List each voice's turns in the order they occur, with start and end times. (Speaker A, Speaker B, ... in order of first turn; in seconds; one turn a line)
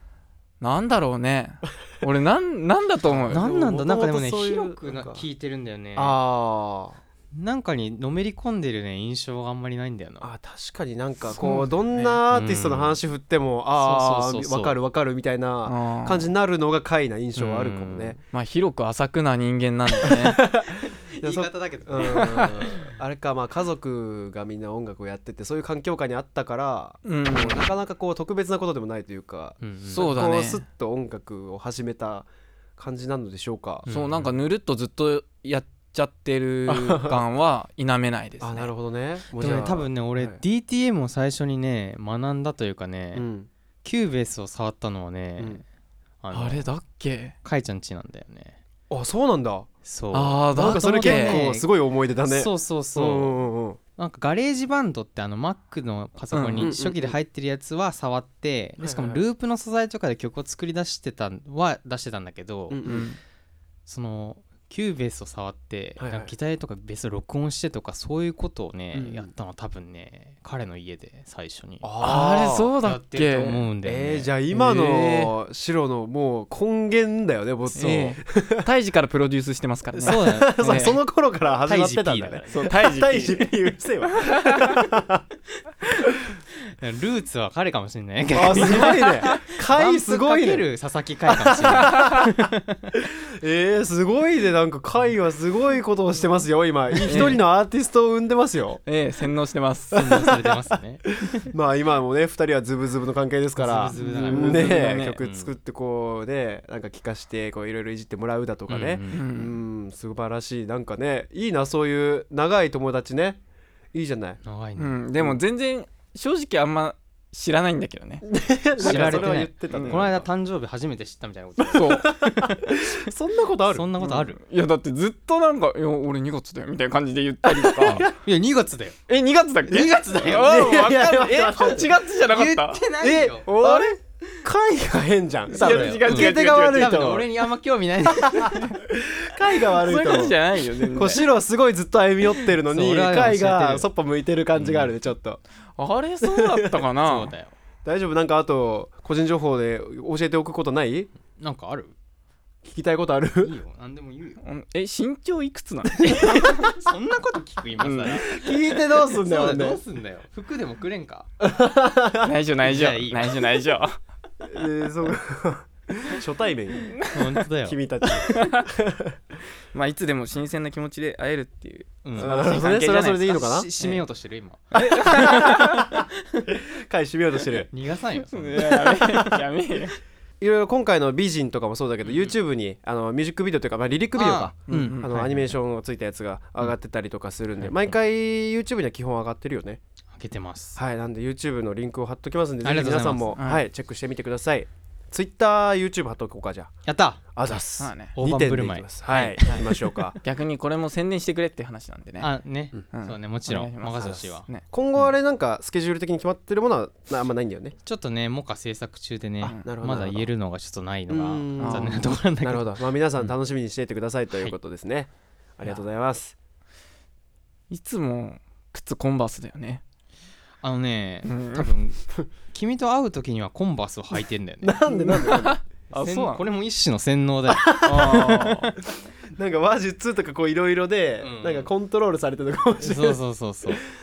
Speaker A: 0.6-3.5
Speaker B: 3.1-5.2
Speaker C: 3.3-6.2
Speaker B: 5.9-7.0
Speaker C: 7.3-10.3
Speaker B: 10.2-18.2
Speaker A: 11.4-12.2
Speaker C: 12.3-13.0
Speaker C: 13.7-14.8
Speaker A: 15.7-16.3
Speaker C: 17.4-18.2
Speaker A: 18.3-20.4
Speaker B: 20.0-33.9
Speaker C: 21.1-22.9
Speaker A: 22.0-22.5
Speaker A: 27.0-27.7
Speaker C: 29.6-30.1
Speaker A: 29.9-30.6
Speaker C: 33.9-34.3
Speaker A: 33.9-38.7
Speaker B: 36.7-37.2
Speaker B: 38.4-40.4
Speaker C: 39.4-43.2
Speaker B: 43.1-43.5
Speaker C: 43.8-45.6
Speaker B: 45.4-45.6
Speaker C: 46.2-46.7
Speaker A: 46.3-47.4
Speaker C: 47.4-48.6
Speaker B: 48.9-49.7
Speaker C: 49.9-51.7
Speaker A: 50.1-51.4
Speaker B: 50.5-53.8
Speaker C: 52.2-62.9
Speaker A: 56.3-56.7
Speaker B: 56.6-57.1
Speaker B: 58.8-59.2
Speaker B: 62.7-63.0
Speaker A: 62.9-63.2
Speaker C: 63.9-72.0
Speaker B: 66.0-66.3
Speaker B: 68.9-69.3
Speaker B: 71.8-72.8
Speaker A: 72.0-73.6
Speaker C: 72.8-75.0
Speaker B: 73.8-78.7
Speaker A: 74.6-75.2
Speaker A: 77.7-81.0
Speaker C: 77.7-78.2
Speaker C: 79.9-80.9
Speaker B: 80.0-85.2
Speaker C: 81.6-82.5
Speaker A: 82.5-83.5
Speaker A: 84.2-84.8
Speaker C: 86.8-92.9
Speaker B: 88.3-90.7
Speaker A: 88.7-89.4
Speaker B: 91.3-98.8
Speaker A: 91.7-92.2
Speaker C: 96.9-97.3
Speaker A: 97.1-97.4
Speaker A: 98.9-100.0
Speaker B: 99.9-113.4
Speaker C: 99.9-101.5
Speaker C: 103.6-105.5
Speaker A: 104.0-105.2
Speaker C: 108.7-109.2
Speaker A: 109.1-109.5
Speaker B: 113.9-114.4
Speaker C: 114.4-115.0
Speaker A: 114.8-118.3
Speaker B: 118.2-120.2
Speaker A: 118.8-120.0
Speaker C: 118.8-123.0
Speaker B: 121.6-124.2
Speaker A: 121.7-122.1
Speaker C: 123.7-124.4
Speaker A: 124.0-128.1
Speaker B: 127.6-128.1
Speaker C: 127.9-129.0
Speaker A: 129.1-132.8
Speaker C: 129.7-130.6
Speaker B: 130.2-131.9
Speaker C: 132.3-133.5
Speaker B: 133.0-137.3
Speaker A: 133.4-133.9
Speaker C: 135.5-138.6
Speaker A: 135.5-137.0
Speaker B: 138.1-145.4
Speaker A: 139.8-141.2
Speaker C: 142.7-143.9
Speaker C: 144.5-144.9
Speaker A: 145.8-147.3
Speaker B: 146.2-146.8
Speaker C: 147.0-147.5
Speaker B: 147.8-151.1
Speaker C: 151.4-151.9
Speaker B: 152.6-153.5
Speaker C: 153.4-154.4
Speaker A: 154.4-156.7
Speaker B: 156.0-156.7
Speaker C: 156.3-161.3
Speaker A: 157.8-158.2
Speaker B: 158.1-159.8
Speaker B: 161.4-162.3
Speaker A: 162.2-163.9
Speaker C: 162.6-163.4
Speaker B: 164.4-167.0
Speaker C: 167.1-167.8
Speaker B: 167.6-169.2
Speaker A: 168.3-168.7
Speaker A: 169.7-174.0
Speaker C: 172.0-172.3
Speaker B: 172.2-173.7
Speaker C: 173.2-176.5
Speaker A: 174.7-175.9
Speaker B: 174.8-177.7
Speaker C: 177.6-179.3
Speaker A: 178.3-180.0
Speaker B: 180.4-189.8
Speaker C: 182.1-182.3
Speaker C: 184.1-185.5
Speaker A: 184.7-185.1
Speaker C: 187.6-187.9
Speaker C: 190.1-190.8
Speaker B: 190.8-200.2
Speaker C: 192.6-193.3
Speaker A: 193.4-193.6
Speaker C: 196.9-197.6
Speaker A: 197.8-198.1
Speaker C: 198.1-200.0
Speaker A: 200.2-202.3
Speaker C: 202.2-204.5
Speaker A: 202.9-204.6
Speaker B: 204.6-207.8
Speaker C: 207.8-213.3
Speaker B: 209.4-210.3
Speaker B: 211.1-216.3
Speaker A: 211.6-212.0
Speaker A: 217.7-219.8
Speaker C: 220.6-224.8
Speaker A: 221.2-221.7
Speaker B: 224.6-225.6
Speaker A: 224.9-226.4
Speaker C: 225.9-228.8
Speaker B: 227.5-228.3
Speaker A: 227.8-228.7
Speaker B: 229.3-233.2
Speaker C: 231.2-231.7
Speaker C: 232.8-233.8